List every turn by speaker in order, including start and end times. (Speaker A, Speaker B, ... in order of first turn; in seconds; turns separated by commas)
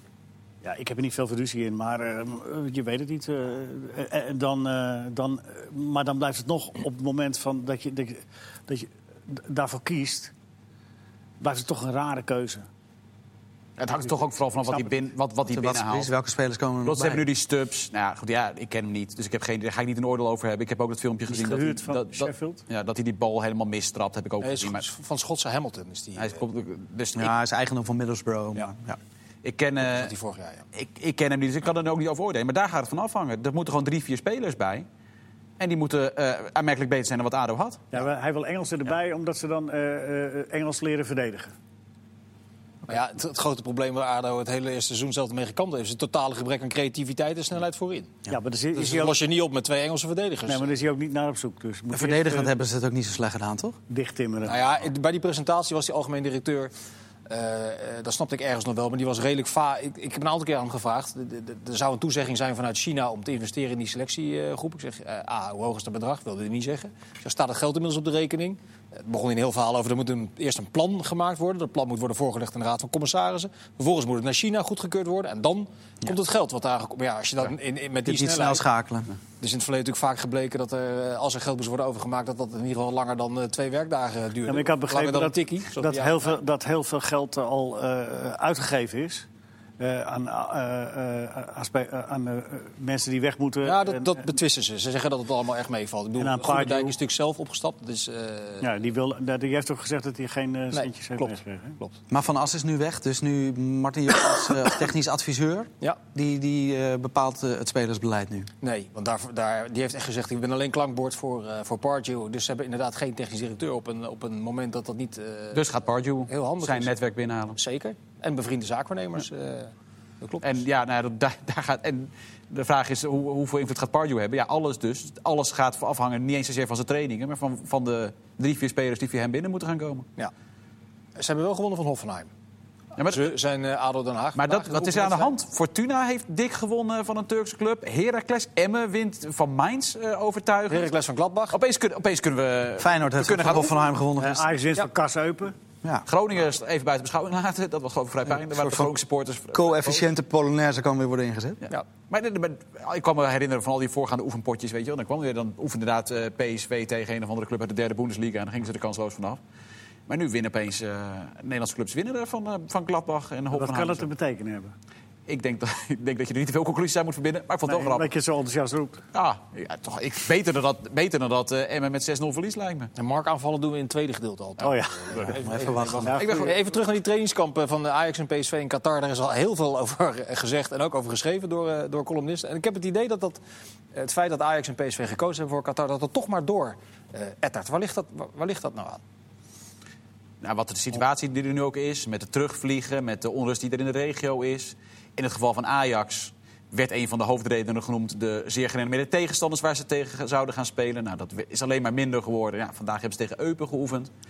Speaker A: 0.6-10.3, Speaker A: 11.4-12.7, Speaker B: 13.8-16.1, Speaker A: 14.7-14.9, Speaker C: 15.5-17.3, Speaker B: 16.8-24.9, Speaker A: 21.3-22.6, Speaker D: 24.4-26.4, Speaker B: 26.2-27.3, Speaker C: 27.1-29.0, Speaker B: 29.4-30.1, Speaker D: 29.8-30.7, Speaker B: 30.7-34.9, Speaker B: 35.6-37.8, Speaker A: 37.9-41.5, Speaker D: 42.9-48.2, Speaker A: 48.3-49.2, Speaker D: 48.7-50.7, Speaker A: 50.5-52.5, Speaker C: 51.9-53.8, Speaker A: 53.9-54.6, Speaker D: 54.5-56.7, Speaker D: 57.3-78.7, Speaker C: 78.0-79.1, Speaker D: 79.4-86.3, Speaker A: 84.5-89.3, Speaker A: 89.8-94.3, Speaker D: 93.6-98.7, Speaker A: 96.2-97.0, Speaker A: 98.6-101.8, Speaker D: 100.7-102.0, Speaker C: 102.1-108.5, Speaker D: 108.6-115.7, Speaker B: 115.5-117.6, Speaker D: 116.3-116.9, Speaker D: 117.5-120.6, Speaker B: 120.4-130.1, Speaker D: 131.2-132.3, Speaker B: 133.0-133.3, Speaker D: 133.1-135.3, Speaker B: 134.4-140.9, Speaker D: 140.7-141.6, Speaker B: 141.5-143.8, Speaker C: 142.8-144.5, Speaker A: 144.2-145.6, Speaker B: 146.1-150.1, Speaker C: 148.5-148.9, Speaker C: 149.5-151.6, Speaker B: 151.7-159.4, Speaker B: 160.1-164.1, Speaker A: 163.5-164.7, Speaker B: 165.3-168.1, Speaker A: 167.7-169.0, Speaker B: 169.1-172.9, Speaker D: 173.0-183.4, Speaker A: 174.6-175.4, Speaker C: 175.3-176.2, Speaker A: 176.0-176.6, Speaker D: 183.9-189.0, Speaker B: 190.4-204.1